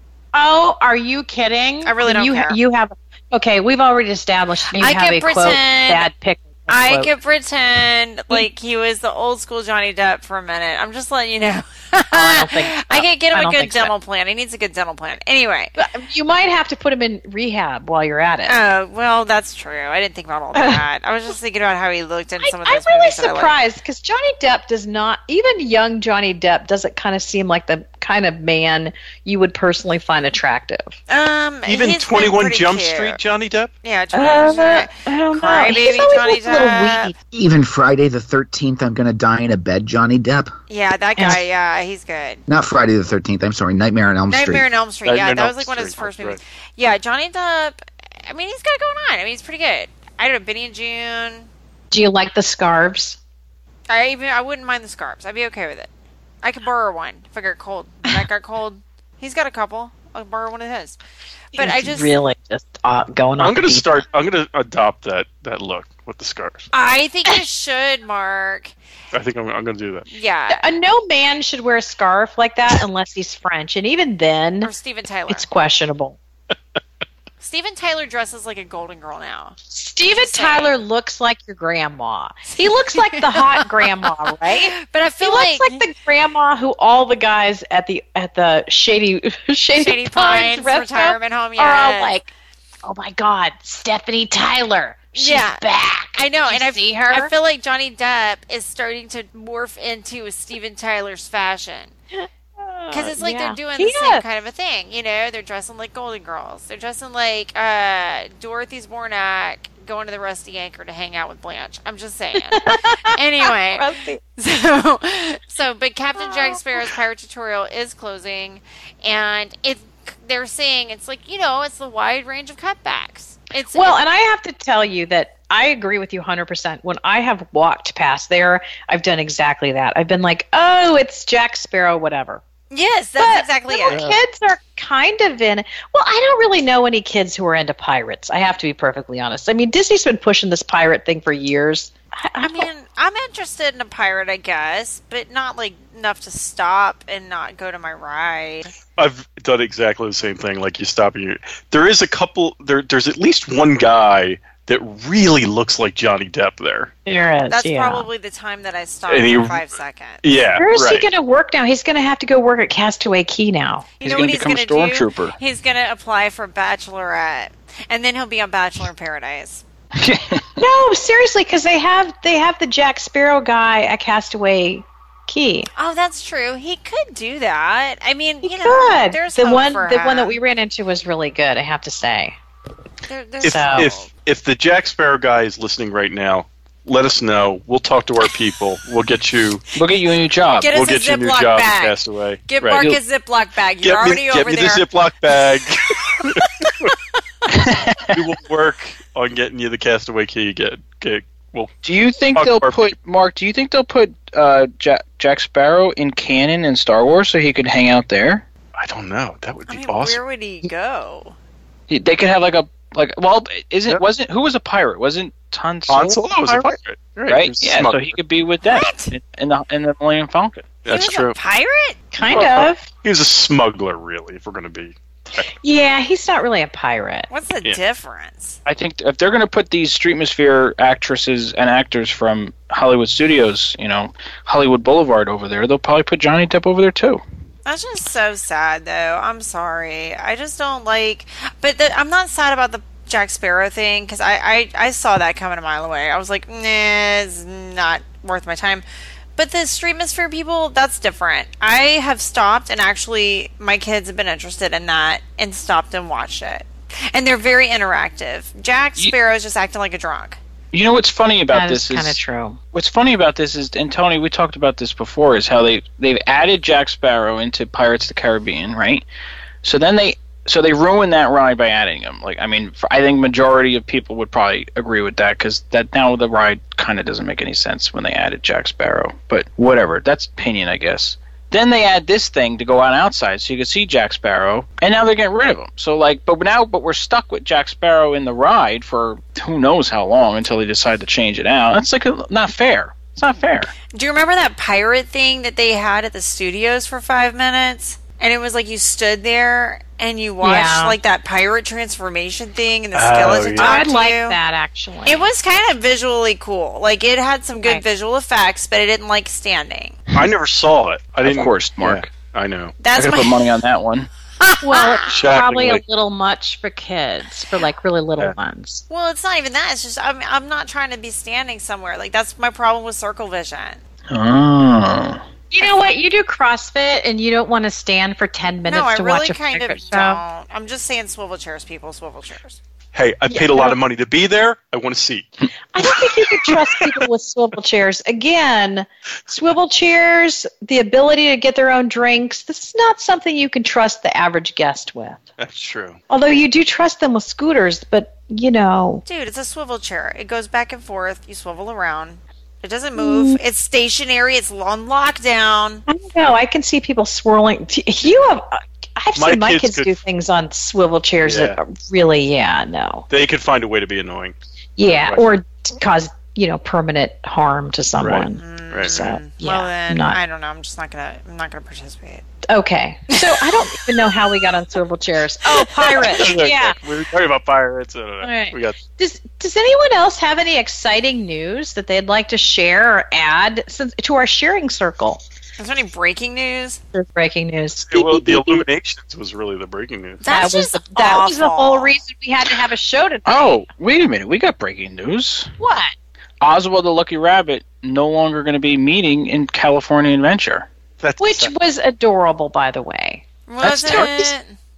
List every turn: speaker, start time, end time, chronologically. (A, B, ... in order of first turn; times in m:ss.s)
0:00.3-0:07.1 A
0:01.8-0:02.6 B
0:04.7-0:06.1 B
0:06.7-0:15.7 B
0:12.1-0:13.9 A
0:15.8-0:18.6 A
0:18.5-0:23.6 B
0:20.6-0:20.8 A
0:22.4-0:31.0 A
0:31.1-0:33.2 B
0:31.7-0:33.7 C
0:33.8-0:37.1 B
0:34.1-0:37.1 A
0:37.3-0:40.5 D
0:40.7-0:42.4 B
0:42.5-0:44.6 D
0:44.3-0:51.5 B
0:45.0-0:46.4 C
0:51.9-0:53.2 A
0:53.9-0:55.9 B
0:56.4-1:01.0 B
1:01.5-1:02.2 B
1:01.6-1:04.0 A
1:03.4-1:06.7 C
1:06.7-1:08.7 B
1:09.1-1:10.1 C
1:10.1-1:10.7 B
1:10.5-1:14.7 A
1:14.6-1:15.5 B
1:15.3-1:16.2 A
1:17.4-1:19.6 B
1:19.7-1:32.3 A
1:20.1-1:20.8 B
1:22.6-1:25.9 B
1:29.8-1:32.2 B
1:32.8-1:37.3 A
1:35.2-1:41.9 B
1:42.1-1:44.2 A
1:42.9-2:04.0 B
1:52.4-1:54.2 A
1:56.2-1:56.8 A
2:03.7-2:12.4 A
2:12.7-2:14.1 B
2:13.2-2:22.7 A
2:13.9-2:14.2 C
2:22.4-2:28.7 B
2:29.0-2:36.9 C
2:37.1-2:38.1 A
2:37.5-2:40.2 B
2:39.1-2:39.6 C
2:40.2-2:41.1 C
2:40.6-2:43.9 A
2:44.0-2:49.6 B
2:44.0-2:45.4 E
2:50.0-2:50.5 E
2:50.6-2:55.7 A
2:55.8-3:00.4 B
2:58.4-3:02.4 A
3:03.1-3:04.1 B
3:03.4-3:09.6 C
3:03.4-3:03.9 A
3:09.8-3:10.7 E
3:10.6-3:12.0 B
3:10.7-3:12.8 C
3:12.5-3:14.8 B
3:13.8-3:16.9 C
3:16.2-3:16.9 B
3:17.5-3:18.2 E
3:18.1-3:21.7 C
3:21.8-3:28.4 E
3:22.4-3:22.9 C
3:28.8-3:30.2 C
3:29.7-3:31.4 B
3:31.9-3:36.7 E
3:35.9-3:38.2 C
3:37.3-3:40.8 E
3:38.6-3:39.1 B
3:40.8-3:41.4 C
3:40.9-3:42.1 B
3:42.1-3:42.9 A
3:42.2-3:45.4 C
3:45.6-3:47.3 A
3:47.3-3:48.6 B
3:48.6-3:57.2 E
3:57.7-4:08.8 B
4:09.4-4:20.4 B
4:20.7-4:22.2 E
4:21.5-4:22.6 A
4:22.7-4:29.0 E
4:29.6-4:53.7 E
4:53.9-5:04.4 B
5:00.4-5:01.0 A
5:02.9-5:03.8 C
5:03.6-5:05.3 A
5:05.1-5:10.0 B
5:07.5-5:07.8 A
5:10.1-5:12.8 C
5:11.2-5:12.1 E
5:12.8-5:13.5 B
5:12.9-5:14.1 E
5:14.4-5:15.2 B
5:14.6-5:18.8 A
5:15.1-5:15.8 C
5:18.9-5:23.8 B
5:24.1-5:25.2 E
5:25.5-5:30.2 A
5:28.6-5:32.6 B
5:32.9-5:35.3 C
5:33.3-5:33.8 A
5:35.7-5:45.2 A
5:35.8-5:37.0 C
5:45.4-5:46.0 C
5:46.1-5:49.0 A
5:49.0-5:55.8 B
5:53.0-5:53.4 A
5:55.9-6:03.1 A
5:59.2-6:00.0 C
6:01.2-6:01.6 C
6:03.1-6:04.3 C
6:04.8-6:10.2 A
6:08.0-6:09.0 C
6:08.4-6:12.2 B
6:12.5-6:16.8 A
6:13.1-6:14.0 B
6:15.7-6:16.3 B
6:16.0-6:18.8 C
6:18.2-6:25.2 A
6:25.6-6:26.8 B
6:26.9-6:28.6 A
6:27.9-6:30.2 C
6:30.2-6:32.0 B
6:30.3-6:33.6 A
6:33.3-6:35.5 E
6:35.6-6:35.9 A
6:36.4-6:40.7 E
6:41.0-6:41.5 C
6:41.2-6:43.2 A
6:43.5-6:44.6 B
6:43.6-6:44.3 C